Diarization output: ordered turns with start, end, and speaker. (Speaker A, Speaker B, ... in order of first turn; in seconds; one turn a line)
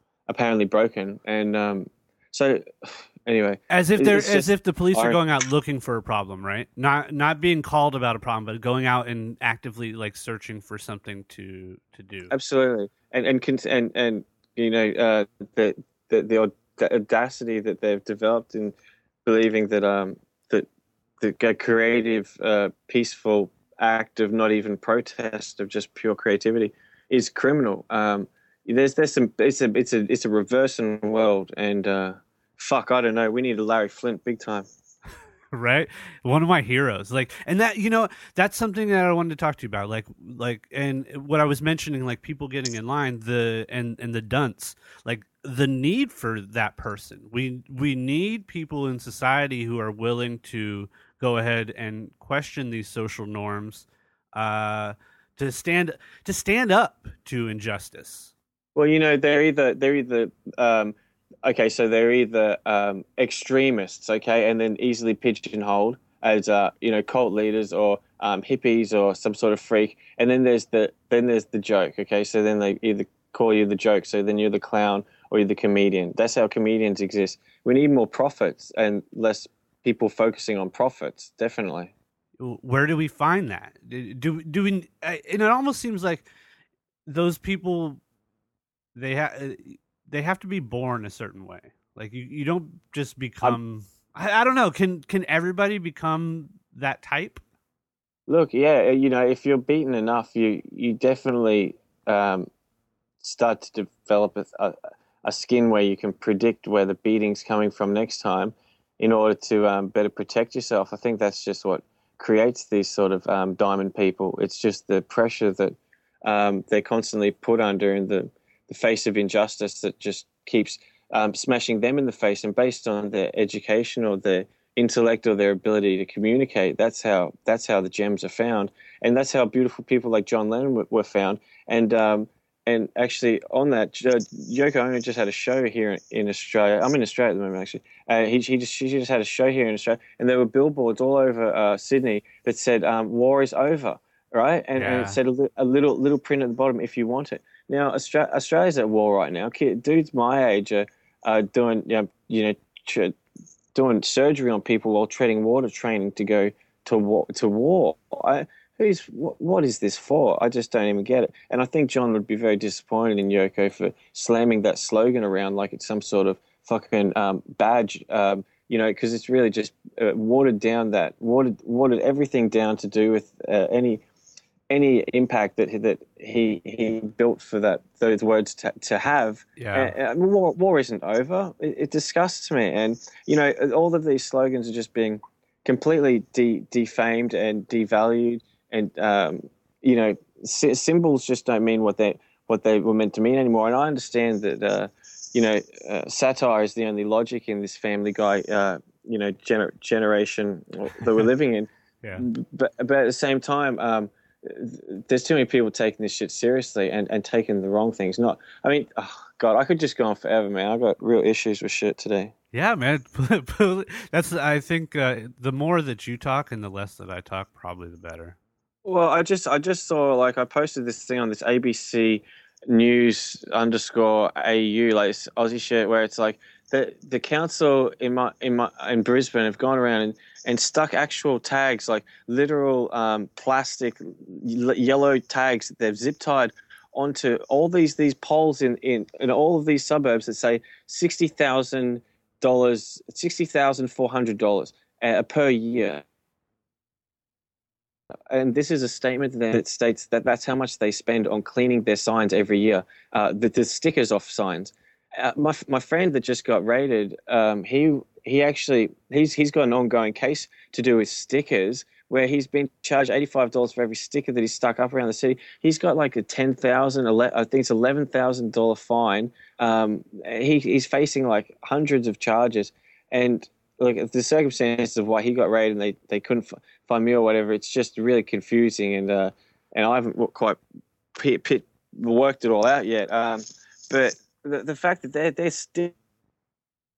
Speaker A: 0.3-5.2
Speaker B: 3.7-12.3
Speaker A: 12.3-20.7
Speaker A: 21.2-34.7
Speaker B: 35.5-58.3
Speaker A: 58.8-81.9
Speaker B: 82.4-86.3
Speaker B: 87.1-88.0
Speaker B: 89.0-97.4
Speaker A: 98.3-102.5
Speaker A: 103.2-153.2
Speaker B: 144.8-145.2
Speaker A: 153.7-174.0
Speaker A: 174.7-212.3
Speaker B: 179.6-179.9
Speaker B: 212.5-218.4
Speaker A: 218.8-246.0
Speaker A: 248.3-280.6
Speaker A: 281.1-285.9